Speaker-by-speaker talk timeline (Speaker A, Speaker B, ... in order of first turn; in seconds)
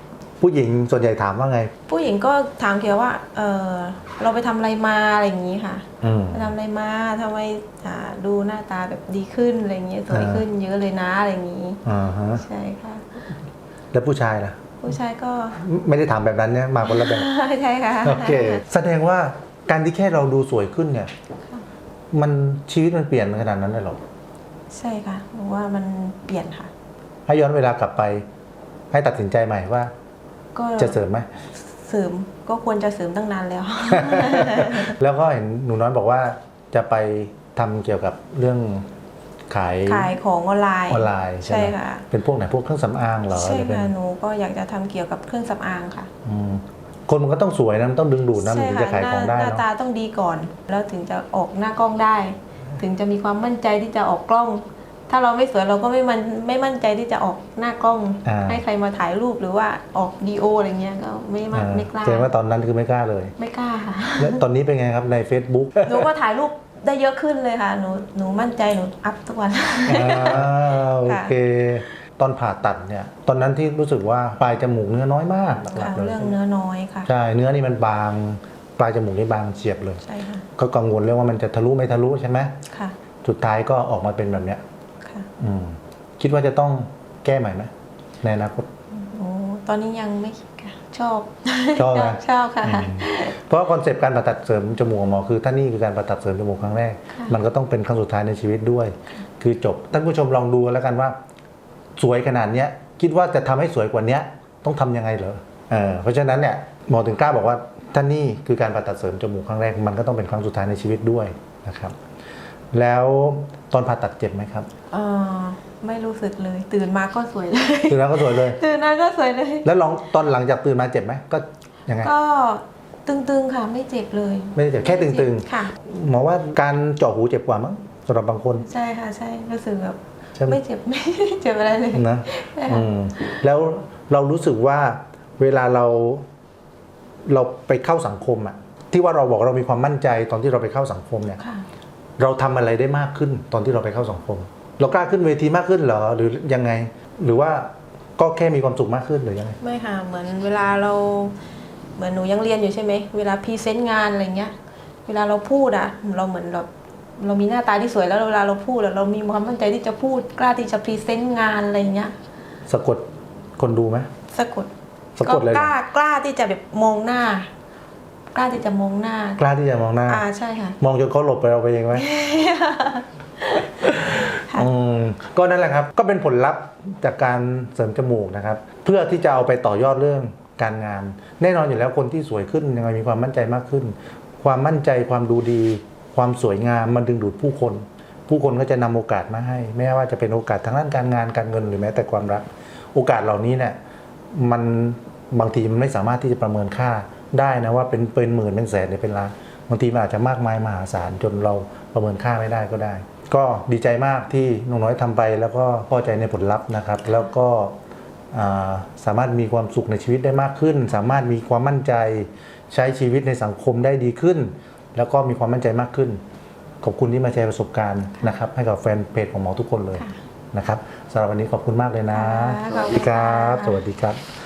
Speaker A: 0.4-1.7, 6.0-6.5, 10.1-10.5, 11.8-12.4, 13.9-14.6, 15.6-17.3, 18.0-21.1, 22.1-24.0, 27.3-28.3, 28.9-29.9, 30.8-31.3, 33.9-38.9, 39.5-40.1, 40.9-43.9, 46.2-49.6, 58.2-58.6, 61.5-63.4, 64.2-66.1, 69.9-76.4, 77.0-80.0, 80.6-82.5, 83.2-84.6, 85.4-88.7, 91.8-101.2, 102.0-112.0, 112.7-114.7, 117.9-118.6, 119.7-122.1, 124.5-128.7, 131.9-136.3, 137.3-141.4, 142.2-149.6, 162.7-163.1, 163.6-164.1, 165.2-165.7, 169.4-170.2, 170.8-172.1, 173.8-193.8, 194.3-207.8, 208.3-216.2, 216.8-224.2
Speaker B: 1.9-11.8, 12.3-13.1, 14.8-15.6, 16.8-18.6, 24.7-26.7, 30.6-31.0, 31.7-34.9, 39.9-42.0, 43.3-46.1, 48.4-62.3, 63.4-64.4, 65.8-71.3, 75.7-77.1, 80.0-80.5, 82.7-83.0, 85.0-85.3, 88.9-93.4, 97.1-97.4, 114.9-119.7, 122.0-125.7, 128.6-133.4, 141.4-141.7, 149.6-151.4, 152.0-154.5, 155.1-162.1, 164.3-167.5, 168.3-169.4, 170.1-170.8, 171.9-174.7, 222.1-223.8